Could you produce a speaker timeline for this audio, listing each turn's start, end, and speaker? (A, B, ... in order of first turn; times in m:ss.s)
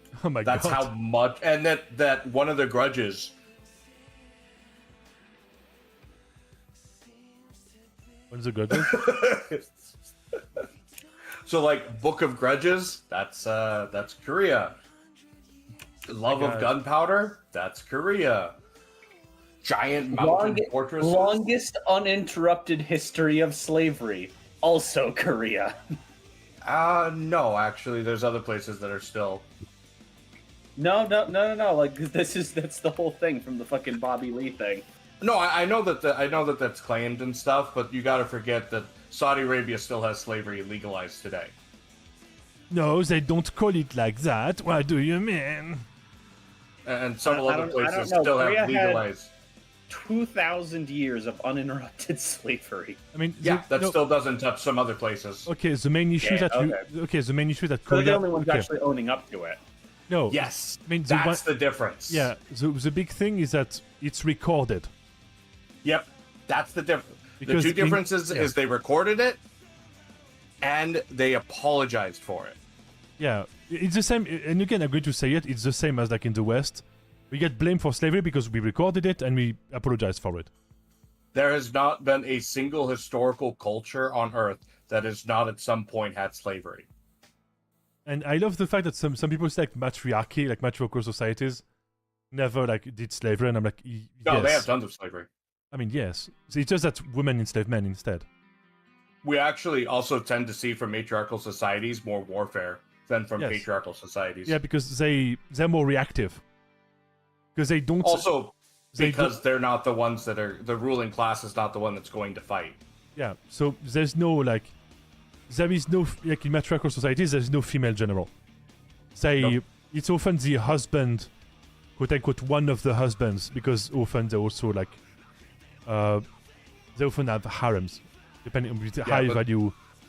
0:00.2-0:00.9 A
0:00.4-0:03.4 B
0:08.3-0:09.1 A
0:08.7-0:09.7 B
0:11.5-0:14.8 B
0:16.1-0:18.6 B
0:16.3-0:16.7 A
0:19.6-0:21.4 B
0:20.1-0:25.8 C
0:26.6-0:29.5 B
0:30.8-0:34.8 C
0:35.2-0:41.5 B
0:42.7-0:45.8 A
0:46.9-0:49.3 B
0:47.2-0:49.1 C
0:49.9-0:53.0 C
0:53.1-0:54.0 A
0:53.4-0:55.5 B
0:55.5-0:58.7 A
0:56.2-0:56.8 C
0:57.9-0:59.6 C
1:00.1-1:01.4 A
1:00.3-1:02.3 B
1:02.1-1:04.9 A
1:05.8-1:09.4 B
1:07.4-1:08.5 A
1:10.6-1:12.6 B
1:13.2-1:20.5 A
1:21.3-1:26.9 B
1:28.1-1:31.6 A
1:32.3-1:34.7 A
1:34.2-1:35.3 B
1:35.7-1:38.3 A
1:39.2-1:44.6 B
1:43.4-1:43.6 A
1:44.5-1:46.4 A
1:47.6-1:48.3 A
1:48.0-1:52.8 B
1:48.9-1:49.3 A
1:53.2-1:54.7 A
1:55.5-1:58.3 A
1:59.2-2:01.3 A
2:02.0-2:05.0 A
2:05.9-2:06.2 A
2:07.0-2:09.8 A
2:09.0-2:09.4 B